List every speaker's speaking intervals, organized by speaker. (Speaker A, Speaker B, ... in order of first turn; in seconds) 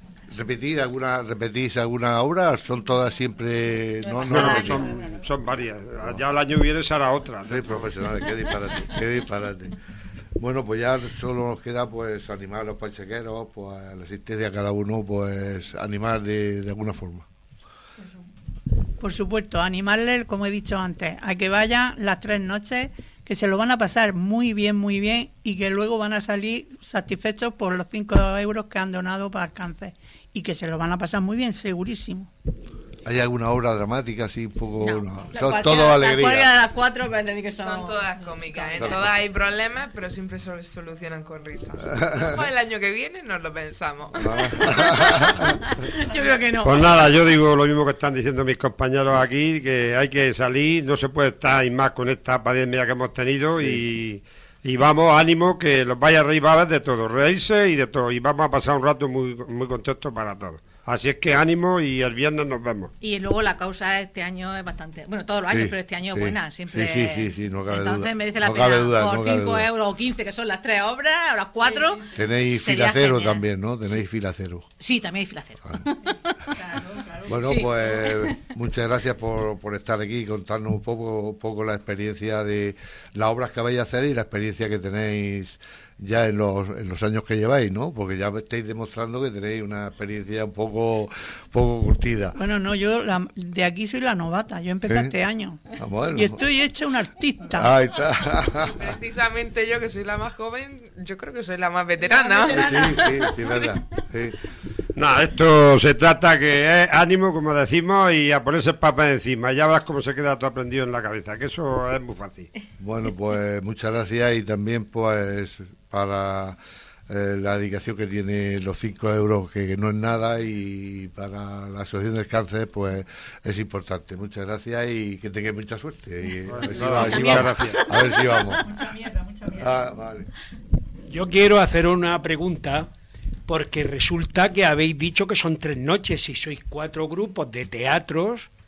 Speaker A: 0.3-4.9, 7.5-9.8, 10.4-17.3, 33.0-36.5, 41.9-42.4, 44.2-45.5, 53.6-53.8, 65.5-69.7, 72.1-74.7, 77.2-92.4, 94.9-95.1, 95.8-96.4, 97.5-98.8, 102.5-104.4, 112.8-116.6, 117.1-128.6, 129.6-130.3
Speaker B: 4.2-7.9, 46.6-62.9, 104.9-112.5, 126.5-127.8
Speaker C: 4.3-5.1, 34.8-39.2, 45.7-47.1, 63.0-74.0, 74.8-78.4, 102.0-103.5, 126.8-128.6
Speaker D: 19.0-32.3, 92.3-97.7, 128.6-129.9
Speaker E: 37.5-45.3, 98.7-103.0
Speaker F: 131.1-132.9, 133.5-138.5